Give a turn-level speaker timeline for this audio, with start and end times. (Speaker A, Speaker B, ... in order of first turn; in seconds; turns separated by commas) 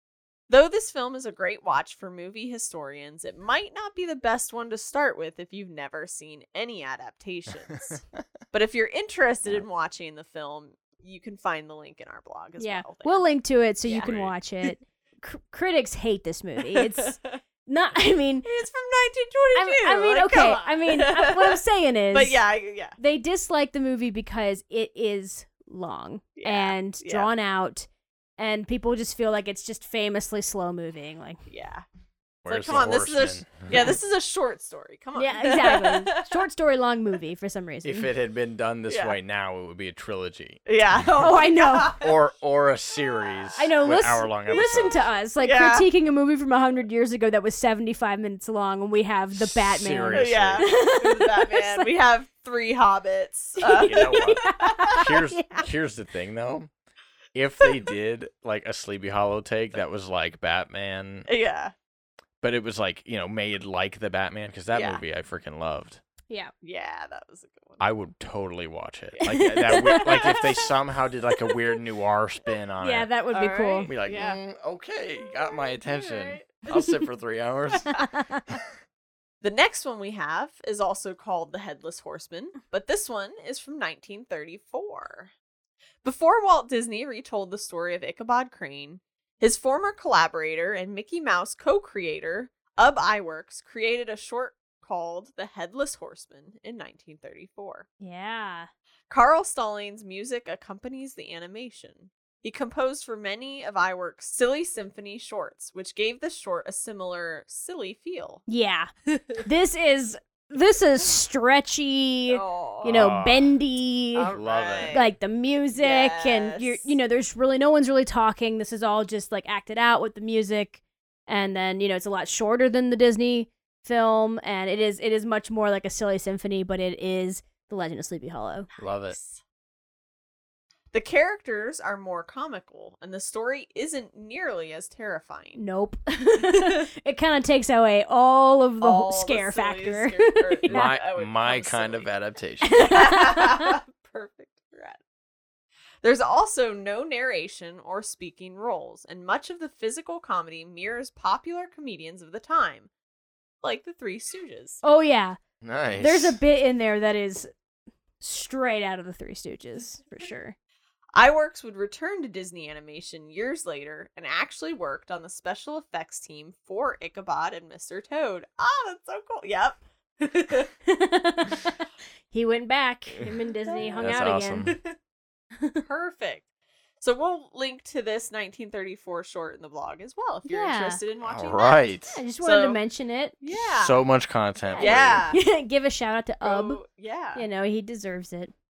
Speaker A: 0.5-13.3, Speaker B: 12.6-18.5, Speaker A: 13.8-14.1, Speaker C: 14.0-14.3, Speaker A: 16.6-17.4, Speaker A: 18.4-21.6, Speaker B: 19.6-22.4, Speaker A: 22.1-23.0, Speaker B: 23.0-27.9, Speaker A: 26.4-27.3, Speaker B: 28.4-31.4, Speaker A: 31.5-31.9, Speaker C: 32.5-33.8, Speaker A: 32.5-36.5, Speaker B: 35.2-38.1, Speaker C: 37.8-40.6, Speaker A: 38.9-39.2, Speaker A: 40.7-42.2, Speaker B: 41.2-42.0, Speaker C: 42.0-45.0, Speaker A: 43.0-43.8, Speaker B: 43.6-51.9, Speaker A: 45.4-45.9, Speaker C: 49.3-50.7, Speaker A: 50.1-55.1, Speaker B: 53.6-55.7, Speaker C: 53.8-56.7, Speaker C: 57.3-61.3, Speaker A: 61.3-61.7, Speaker C: 62.4-66.0, Speaker A: 64.7-65.0, Speaker A: 66.6-67.8, Speaker C: 67.8-73.1, Speaker A: 69.2-70.7, Speaker B: 69.5-70.3, Speaker B: 72.8-73.9, Speaker A: 73.3-74.4, Speaker C: 73.9-78.6, Speaker A: 75.3-77.0, Speaker B: 78.0-78.5, Speaker A: 79.4-85.3, Speaker A: 86.0-97.9, Speaker B: 98.0-98.7, Speaker A: 99.1-108.4, Speaker B: 108.5-114.3, Speaker A: 109.1-109.4, Speaker A: 112.3-113.1, Speaker C: 112.9-113.6, Speaker A: 114.1-115.1, Speaker C: 114.3-115.0, Speaker B: 114.9-128.7, Speaker A: 115.8-116.9, Speaker A: 128.8-129.4, Speaker C: 128.8-129.2, Speaker A: 130.9-135.6, Speaker B: 135.6-140.9, Speaker A: 136.4-136.8, Speaker A: 138.8-142.1, Speaker C: 140.7-142.9, Speaker B: 142.7-143.8, Speaker A: 142.8-145.0, Speaker A: 146.0-152.9, Speaker A: 153.6-154.8, Speaker B: 154.8-155.4, Speaker C: 155.6-156.4, Speaker B: 156.0-157.5, Speaker B: 158.2-160.6, Speaker A: 161.2-170.7, Speaker B: 170.9-171.8, Speaker B: 172.3-174.8, Speaker A: 173.7-174.1, Speaker C: 174.0-174.8, Speaker A: 174.7-174.9, Speaker A: 175.8-176.4, Speaker A: 177.0-182.8, Speaker B: 180.5-181.0, Speaker C: 181.2-182.2, Speaker B: 182.1-183.3, Speaker A: 183.4-184.0, Speaker C: 183.5-185.3, Speaker B: 184.7-186.8, Speaker A: 184.8-185.4, Speaker A: 186.4-187.5, Speaker B: 187.3-188.5